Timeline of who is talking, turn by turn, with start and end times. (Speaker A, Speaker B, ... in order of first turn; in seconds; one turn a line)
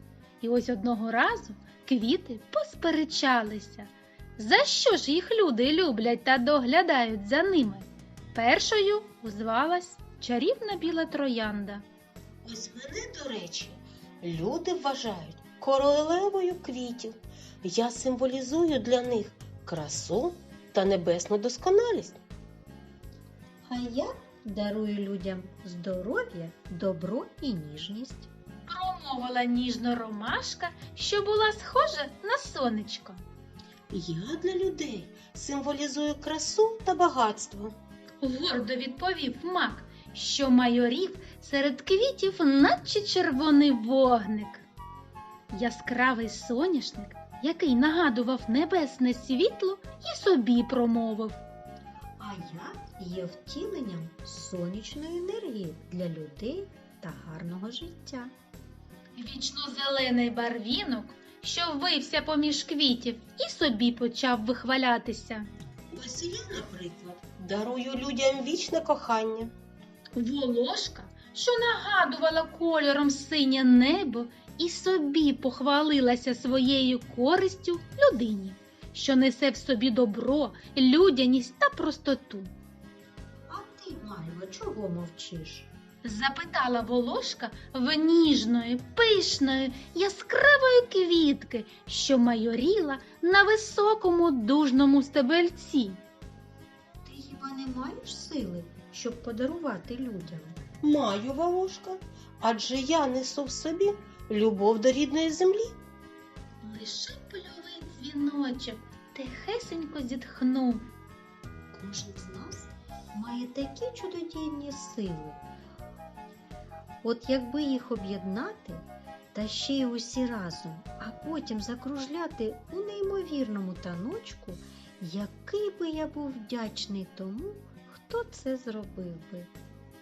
Speaker A: 0.4-11.8
Speaker B: 12.4-22.2
Speaker C: 23.7-28.3
Speaker A: 28.7-33.2
Speaker B: 33.9-37.8
Speaker A: 38.2-44.6
Speaker A: 45.5-51.4
Speaker C: 52.2-58.3
Speaker A: 59.2-65.5
Speaker B: 65.9-69.5
Speaker A: 70.2-82.5
Speaker C: 83.5-85.7
Speaker A: 86.0-96.0
Speaker C: 97.0-100.6
Speaker B: 100.8-105.8
Speaker A: 106.6-110.9
Speaker C: 111.7-115.4
Speaker C: 117.0-129.5